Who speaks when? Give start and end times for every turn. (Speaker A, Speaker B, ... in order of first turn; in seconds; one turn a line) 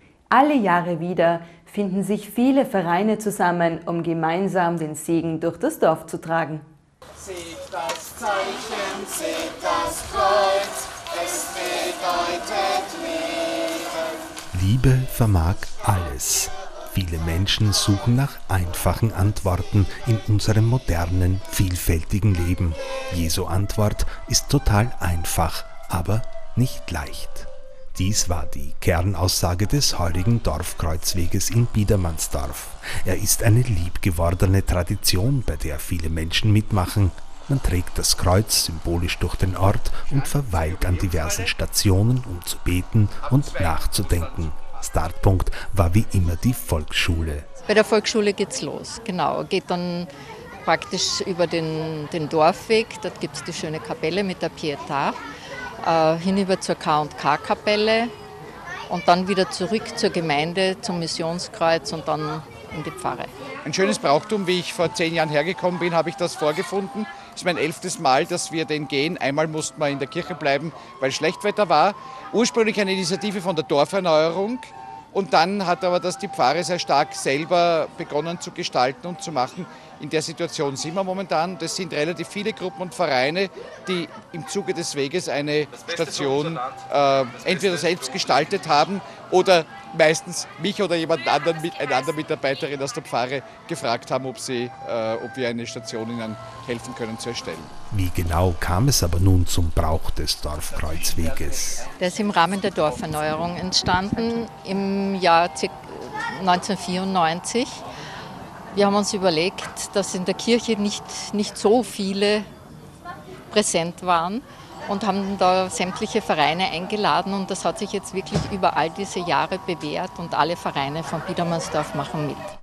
Speaker A: 0.3-6.6
Speaker B: 7.2-13.8
Speaker C: 14.5-47.5
Speaker B: 40.6-41.3
Speaker D: 47.7-50.1
Speaker D: 50.6-55.2
Speaker D: 55.8-58.1
Speaker D: 58.9-63.3
Speaker B: 63.6-97.7
Speaker C: 97.9-101.9
Speaker D: 102.0-107.8
Speaker D: 108.7-112.5
Speaker D: 113.5-122.5